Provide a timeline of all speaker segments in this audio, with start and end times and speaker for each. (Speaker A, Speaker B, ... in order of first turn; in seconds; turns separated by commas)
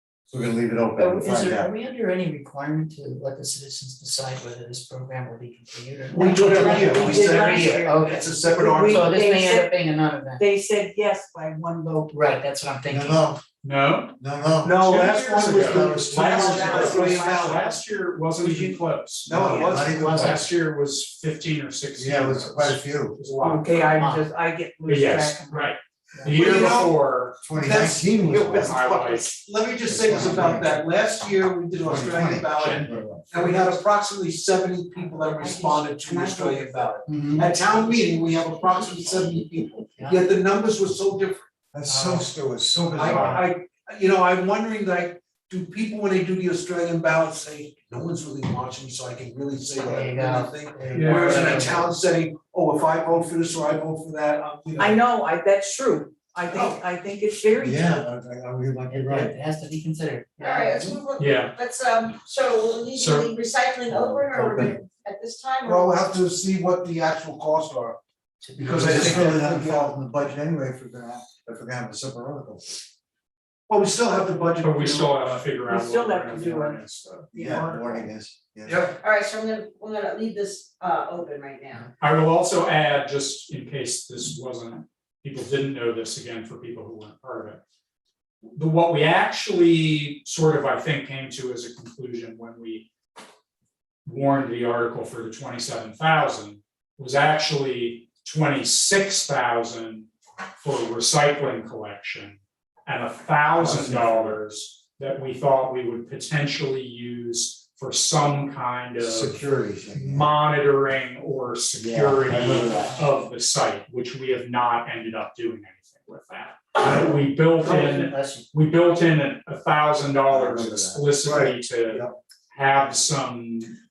Speaker A: 0.3-1.7, Speaker B: 1.0-10.4, Speaker C: 6.1-9.1, Speaker D: 6.3-7.8, Speaker E: 6.9-9.8, Speaker E: 10.4-12.2, Speaker B: 12.1-13.2, Speaker A: 12.8-13.4, Speaker D: 13.6-14.2, Speaker A: 14.2-17.1, Speaker C: 14.6-17.7, Speaker D: 14.8-24.0, Speaker E: 16.4-17.5, Speaker C: 19.2-20.4, Speaker A: 19.2-20.5, Speaker A: 21.9-23.1, Speaker E: 23.4-25.7, Speaker B: 23.9-24.2, Speaker D: 24.9-27.4, Speaker A: 26.2-26.8, Speaker C: 26.3-26.9, Speaker A: 27.4-28.8, Speaker C: 27.5-41.5, Speaker D: 28.5-29.3, Speaker A: 29.9-30.7, Speaker A: 31.8-33.6, Speaker D: 32.5-32.9, Speaker B: 35.1-37.6, Speaker B: 40.0-40.2, Speaker A: 41.7-43.4, Speaker B: 41.9-42.3, Speaker C: 42.9-55.0, Speaker B: 43.0-43.4, Speaker B: 49.7-51.9, Speaker D: 50.9-51.6, Speaker E: 54.8-58.0, Speaker C: 56.4-56.8, Speaker A: 57.6-59.3, Speaker B: 58.9-60.8, Speaker F: 60.4-66.0, Speaker D: 61.2-61.5, Speaker D: 62.9-63.3, Speaker A: 63.9-64.7, Speaker C: 65.6-68.0, Speaker B: 68.4-69.4, Speaker C: 68.6-69.9, Speaker A: 68.7-72.7, Speaker C: 73.7-75.4, Speaker D: 74.6-77.3, Speaker E: 75.7-76.8, Speaker C: 77.3-78.1, Speaker A: 77.3-78.9, Speaker C: 78.6-79.0, Speaker F: 79.0-81.9, Speaker D: 82.0-87.6, Speaker D: 88.5-92.9, Speaker D: 94.0-100.1, Speaker D: 100.6-123.7, Speaker A: 103.6-104.3, Speaker A: 109.0-110.3, Speaker A: 111.8-113.0, Speaker B: 117.8-118.4, Speaker A: 120.3-121.1, Speaker C: 121.2-122.1